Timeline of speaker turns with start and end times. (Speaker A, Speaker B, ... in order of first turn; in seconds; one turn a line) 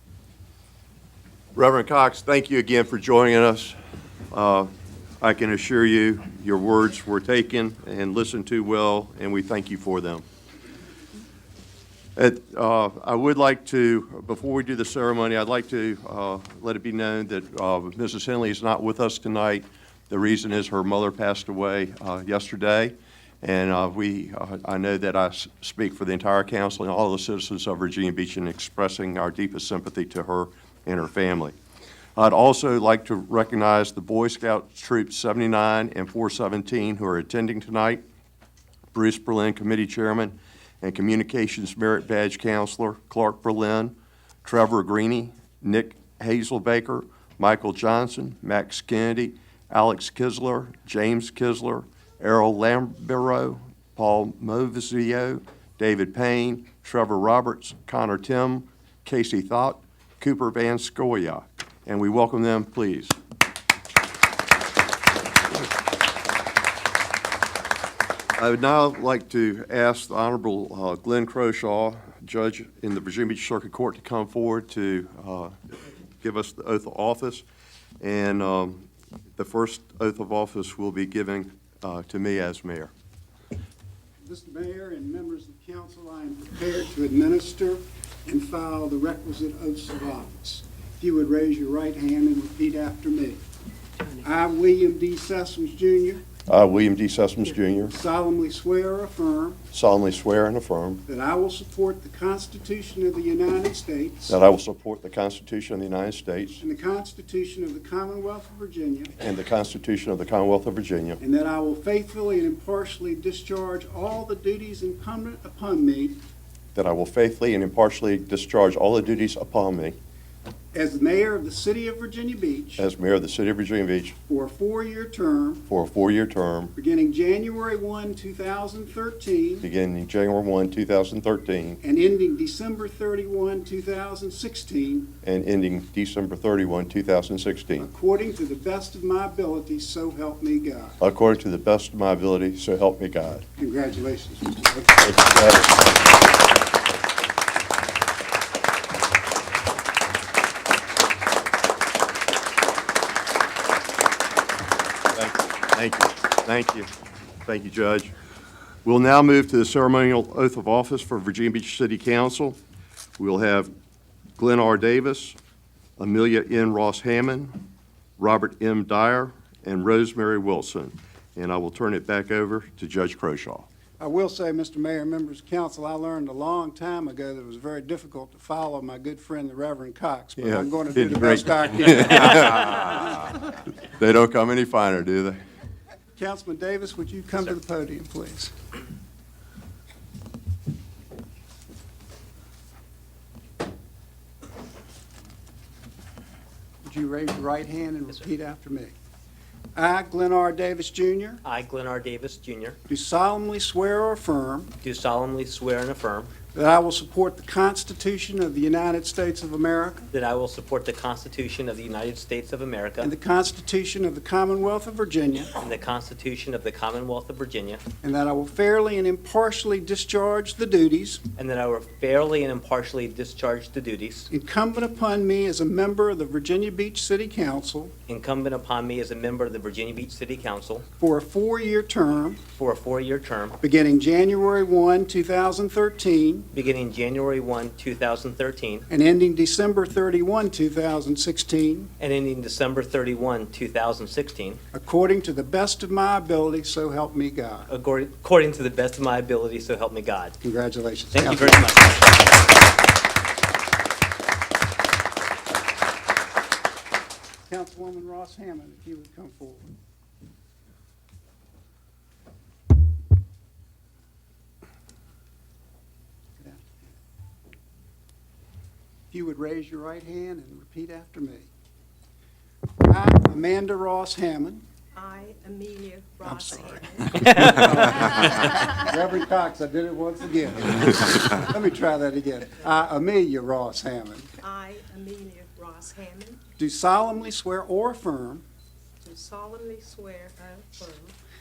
Speaker A: 1.5-3.7
Speaker A: 4.3-4.7
Speaker A: 5.2-10.2
Speaker A: 12.2-31.5
Speaker A: 32.1-38.0
Speaker A: 38.9-63.2
Speaker A: 68.4-77.4
Speaker A: 78.0-82.9
Speaker B: 84.2-93.4
Speaker B: 94.2-96.2
Speaker A: 96.5-97.9
Speaker B: 97.9-99.6
Speaker A: 99.7-101.0
Speaker B: 101.1-104.4
Speaker A: 104.3-106.6
Speaker B: 106.6-109.1
Speaker A: 109.2-111.2
Speaker B: 111.2-116.2
Speaker A: 116.7-120.0
Speaker B: 120.7-122.8
Speaker A: 122.8-124.2
Speaker B: 124.3-125.6
Speaker A: 125.7-126.7
Speaker B: 126.8-129.7
Speaker A: 129.6-131.8
Speaker B: 131.8-135.1
Speaker A: 135.2-137.9
Speaker B: 137.8-141.0
Speaker A: 141.0-143.4
Speaker B: 143.6-145.1
Speaker A: 145.0-145.8
Speaker A: 155.1-156.9
Speaker A: 157.4-158.1
Speaker A: 158.8-162.6
Speaker A: 163.2-163.7
Speaker A: 164.4-165.4
Speaker A: 166.0-167.6
Speaker A: 168.2-173.7
Speaker B: 174.0-182.9
Speaker A: 180.4-183.3
Speaker A: 184.0-185.4
Speaker B: 186.2-188.5
Speaker B: 196.8-198.9
Speaker B: 199.7-201.4
Speaker C: 201.4-202.8
Speaker B: 202.9-204.7
Speaker C: 204.8-206.3
Speaker B: 206.5-210.1
Speaker C: 210.1-213.1
Speaker B: 213.0-215.5
Speaker C: 215.6-217.8
Speaker B: 218.0-221.2
Speaker C: 221.3-224.3
Speaker B: 224.3-227.9
Speaker C: 228.1-230.8
Speaker B: 231.0-232.4
Speaker C: 232.6-233.6
Speaker B: 233.6-236.5
Speaker C: 236.5-238.9
Speaker B: 238.9-241.9
Speaker C: 242.0-244.6
Speaker B: 244.7-247.7
Speaker C: 247.7-250.4
Speaker B: 250.4-251.7
Speaker C: 251.1-252.2
Speaker B: 257.5-259.6
Speaker B: 269.1-271.5
Speaker B: 272.8-274.6
Speaker D: 274.9-278.7
Speaker B: 276.2-276.8
Speaker B: 277.3-284.3
Speaker D: 284.4-286.4
Speaker B: 286.6-288.4
Speaker D: 289.0-291.1